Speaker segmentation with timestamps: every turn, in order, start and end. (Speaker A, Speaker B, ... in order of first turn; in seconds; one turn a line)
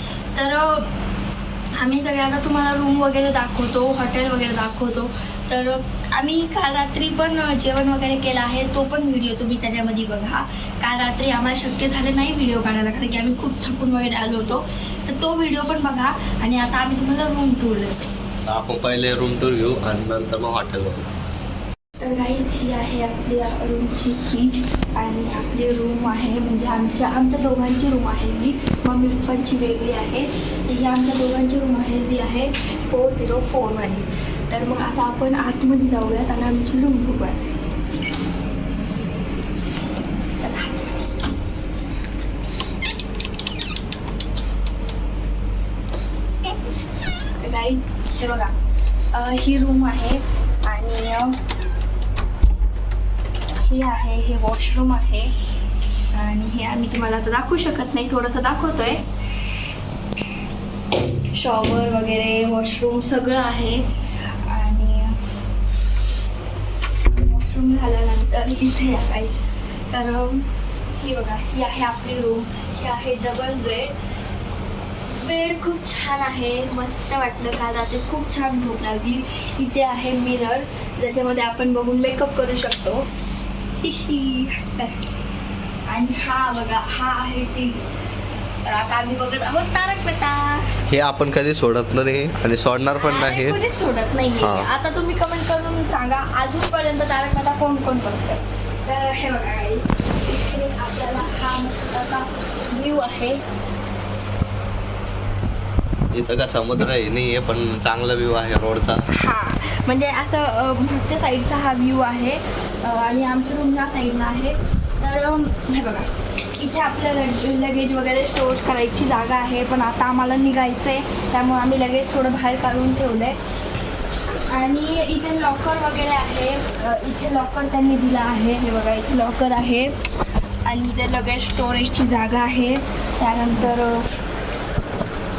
Speaker A: 0.3-0.9
Speaker A: 1.8-18.1
Speaker B: 18.5-21.1
Speaker A: 22.0-37.4
Speaker A: 40.4-41.0
Speaker A: 47.4-48.6
Speaker A: 49.1-51.4
Speaker A: 53.5-55.3
Speaker A: 56.1-59.0
Speaker A: 61.3-65.2
Speaker A: 67.0-73.9
Speaker A: 75.1-83.1
Speaker A: 83.8-85.0
Speaker A: 85.9-87.8
Speaker A: 88.6-90.7
Speaker B: 90.9-93.6
Speaker A: 93.0-103.4
Speaker B: 94.4-94.7
Speaker B: 106.1-109.0
Speaker A: 109.1-123.4
Speaker A: 124.5-130.0
Speaker A: 130.6-134.1